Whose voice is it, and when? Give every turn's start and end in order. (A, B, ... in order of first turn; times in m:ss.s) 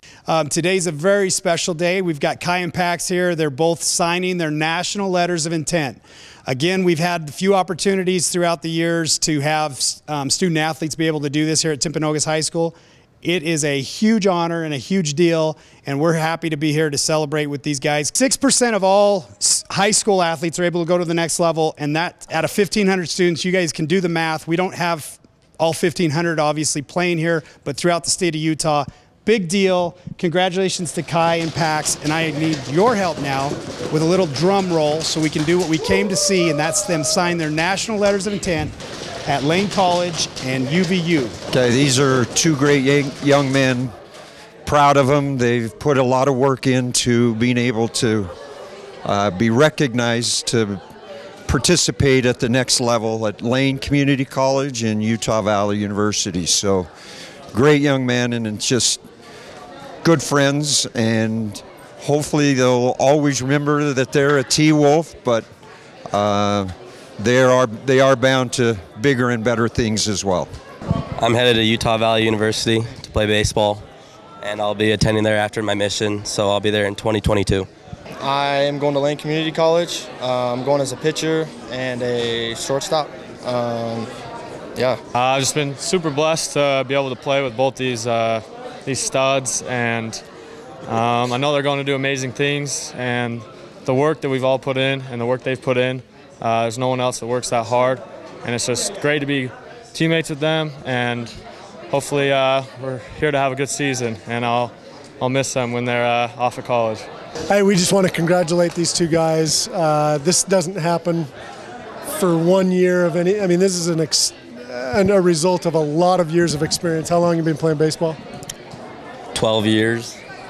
0:00.3-0:38.7 A
0:39.2-0:41.3 A
0:41.5-0:43.9 B
0:44.6-0:48.3 B
0:49.0-0:50.8 B
0:51.4-0:56.9 B
0:57.5-0:59.0 B
1:00.0-1:05.5 B
1:06.1-1:10.5 B
1:11.2-1:13.8 C
1:14.4-1:17.7 C
1:18.2-1:24.1 D
1:24.8-1:25.0 D
1:25.1-1:30.2 E
1:30.8-1:41.3 E
1:41.9-1:47.0 E
1:47.5-1:51.3 F
1:52.1-1:58.2 F
1:59.3-2:00.2 C